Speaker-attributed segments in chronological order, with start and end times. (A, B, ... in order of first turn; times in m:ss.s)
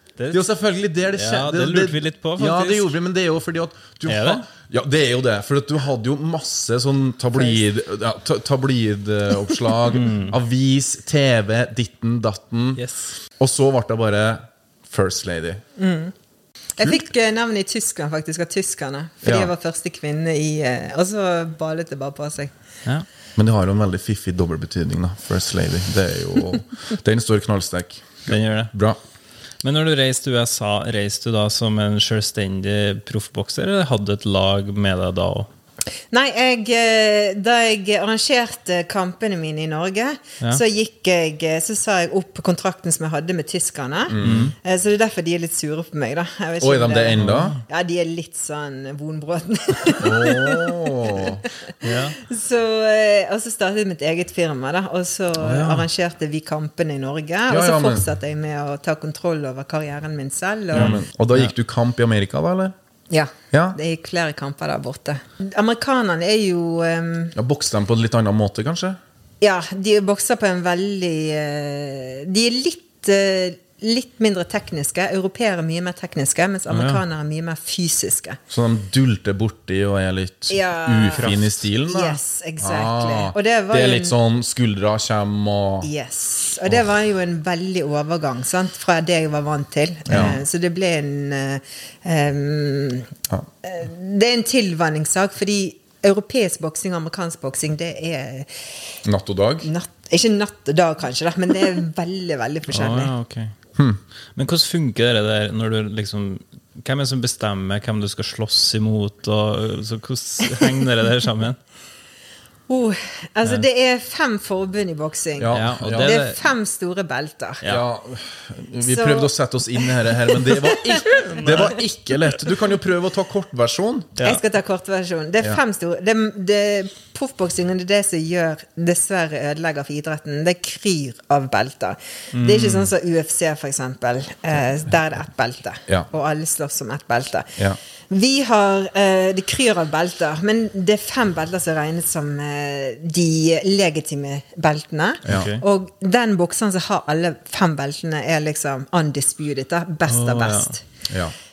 0:00.2-0:00.4 A
0:00.3-0:12.8 B
0:01.1-0:02.9 A
0:04.1-0:04.4 A
0:09.9-0:10.4 A
0:12.8-0:13.1 A
0:13.4-0:15.6 B
0:15.8-0:16.1 C
0:16.8-0:22.5 C
0:19.2-0:19.5 B
0:23.4-0:29.0 B
0:28.3-0:28.7 A
0:29.6-0:35.5 A
0:36.1-1:00.9 C
0:44.1-0:44.5 B
0:44.2-0:44.5 A
0:46.6-0:47.6 B
0:47.2-0:47.6 A
0:50.0-0:51.4 B
0:51.8-0:52.2 A
0:55.4-0:55.9 A
0:57.5-0:58.1 B
1:00.7-1:02.7 B
1:00.7-1:01.5 A
1:03.1-1:07.4 C
1:03.5-1:03.8 B
1:07.4-1:09.0 B
1:09.4-1:18.4 C
1:16.7-1:17.0 A
1:18.5-1:25.9 B
1:20.5-1:21.3 C
1:21.2-1:21.6 A
1:21.8-1:24.1 C
1:25.8-1:33.1 C
1:30.1-1:30.4 B
1:33.6-1:38.5 C
1:39.0-1:39.7 B
1:39.6-1:43.1 C
1:42.7-1:43.5 A
1:44.4-1:51.6 A
1:52.7-1:57.6 C
1:55.4-1:56.2 B
1:55.5-1:56.4 A
1:57.6-2:04.1 B
1:58.8-2:01.5 C
2:01.2-2:02.4 A
2:04.2-2:04.4 A
2:04.2-2:17.6 C
2:12.4-2:12.9 A
2:18.1-2:30.8 C
2:25.3-2:25.6 A
2:30.1-2:30.7 A